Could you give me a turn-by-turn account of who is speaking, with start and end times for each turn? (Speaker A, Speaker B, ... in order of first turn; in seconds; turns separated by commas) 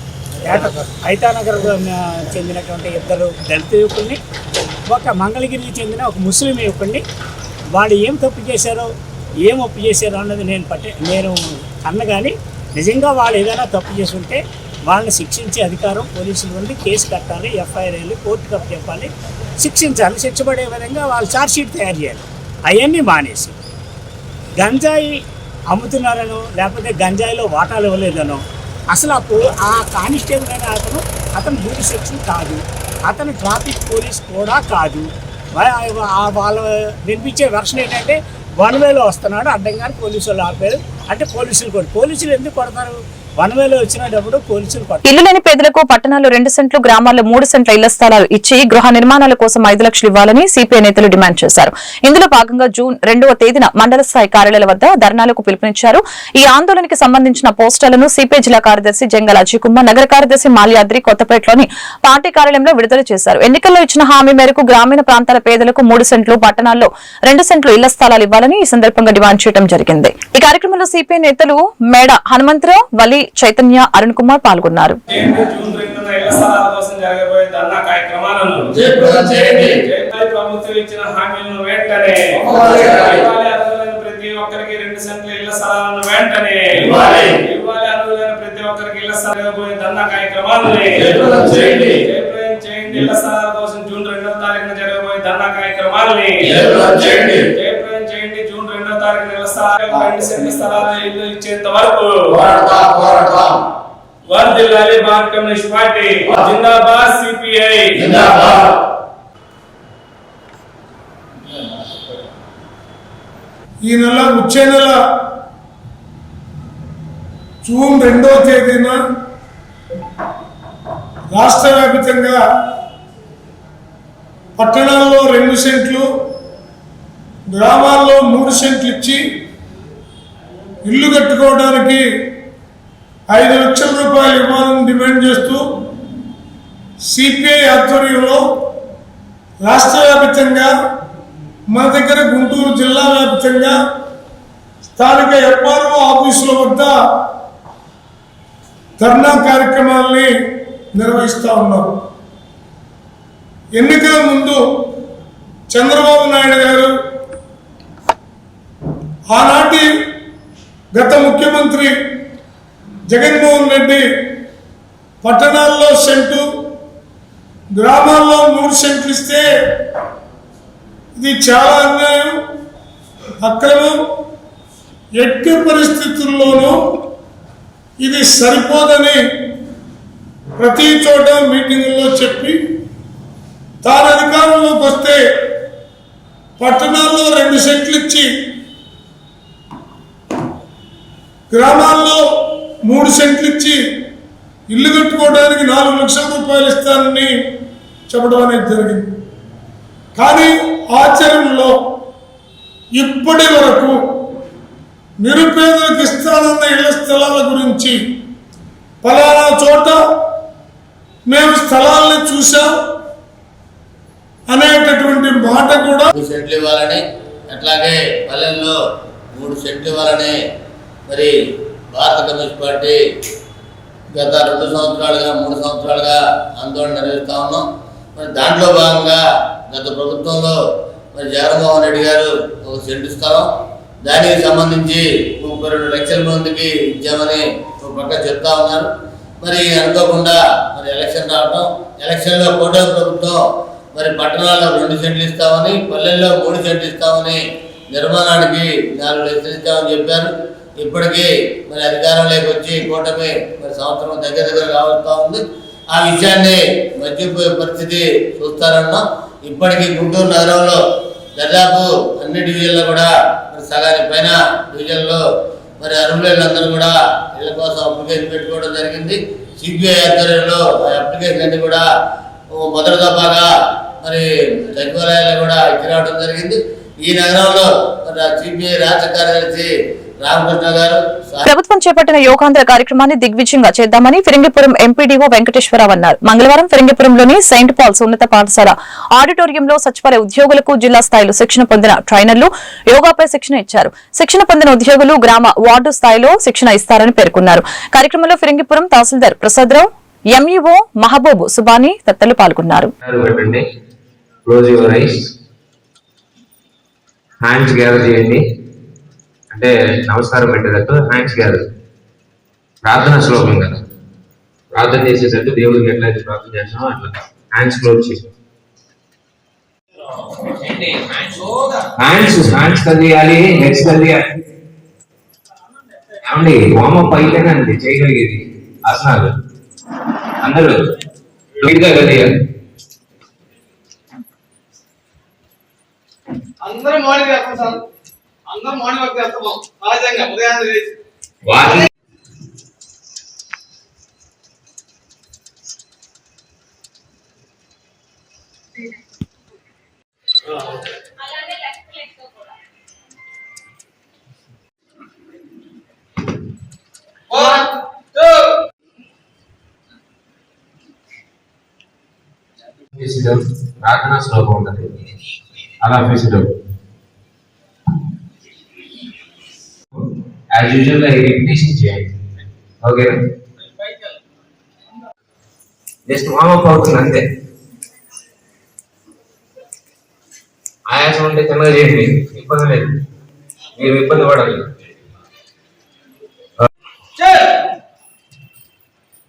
Speaker A: 0.4-4.2, Speaker A: 4.9-7.0, Speaker A: 7.7-8.9, Speaker A: 9.4-23.6, Speaker A: 24.6-45.0, Speaker B: 45.0-75.0, Speaker C: 75.1-102.4, Speaker D: 78.7-79.8, Speaker D: 82.4-83.2, Speaker D: 86.8-87.3, Speaker D: 91.0-92.0, Speaker D: 96.4-97.5, Speaker D: 99.9-100.3, Speaker D: 102.3-103.6, Speaker C: 104.3-108.1, Speaker D: 108.0-108.7, Speaker E: 113.9-115.0, Speaker E: 117.6-119.0, Speaker E: 121.3-122.4, Speaker E: 124.6-126.0, Speaker E: 127.5-129.2, Speaker E: 130.8-132.0, Speaker E: 133.3-135.6, Speaker E: 137.1-138.4, Speaker E: 139.6-140.7, Speaker E: 141.7-143.7, Speaker E: 145.0-146.9, Speaker E: 149.0-150.3, Speaker E: 150.9-151.9, Speaker E: 153.8-154.6, Speaker E: 155.7-156.9, Speaker E: 159.3-159.9, Speaker E: 160.9-161.9, Speaker E: 163.1-164.0, Speaker E: 165.2-166.4, Speaker E: 167.7-169.4, Speaker E: 171.2-172.4, Speaker E: 173.4-174.0, Speaker E: 175.2-176.8, Speaker E: 178.0-179.2, Speaker E: 180.6-182.6, Speaker E: 183.8-185.2, Speaker E: 186.6-188.3, Speaker E: 191.5-192.2, Speaker E: 192.9-193.8, Speaker E: 194.7-197.3, Speaker E: 198.1-199.1, Speaker E: 200.2-201.7, Speaker E: 203.0-204.0, Speaker E: 205.2-208.0, Speaker E: 209.0-210.0, Speaker E: 211.3-212.7, Speaker E: 214.5-216.1, Speaker D: 216.1-218.7, Speaker D: 219.3-220.3, Speaker D: 221.9-223.0, Speaker D: 224.1-227.6, Speaker D: 228.2-230.6, Speaker D: 231.1-233.5, Speaker D: 234.0-238.9, Speaker D: 239.4-243.4, Speaker D: 243.9-247.4, Speaker D: 247.9-260.8, Speaker D: 261.4-265.2, Speaker D: 265.8-271.8, Speaker D: 272.5-273.5, Speaker D: 274.0-281.5, Speaker B: 281.5-302.9, Speaker F: 303.0-303.6, Speaker F: 304.4-305.3, Speaker F: 307.4-308.4, Speaker F: 309.5-311.6, Speaker F: 312.8-313.8, Speaker F: 314.7-318.3, Speaker F: 320.4-324.3, Speaker F: 326.2-329.3, Speaker F: 330.4-330.8, Speaker F: 331.6-332.3, Speaker G: 336.6-337.8, Speaker G: 338.5-340.9, Speaker F: 341.4-341.9, Speaker G: 357.3-358.4, Speaker F: 362.9-365.1, Speaker F: 365.8-366.5, Speaker F: 370.5-372.1, Speaker F: 372.8-373.3, Speaker F: 376.1-377.3, Speaker F: 380.9-382.9, Speaker F: 383.8-384.7, Speaker G: 387.2-387.5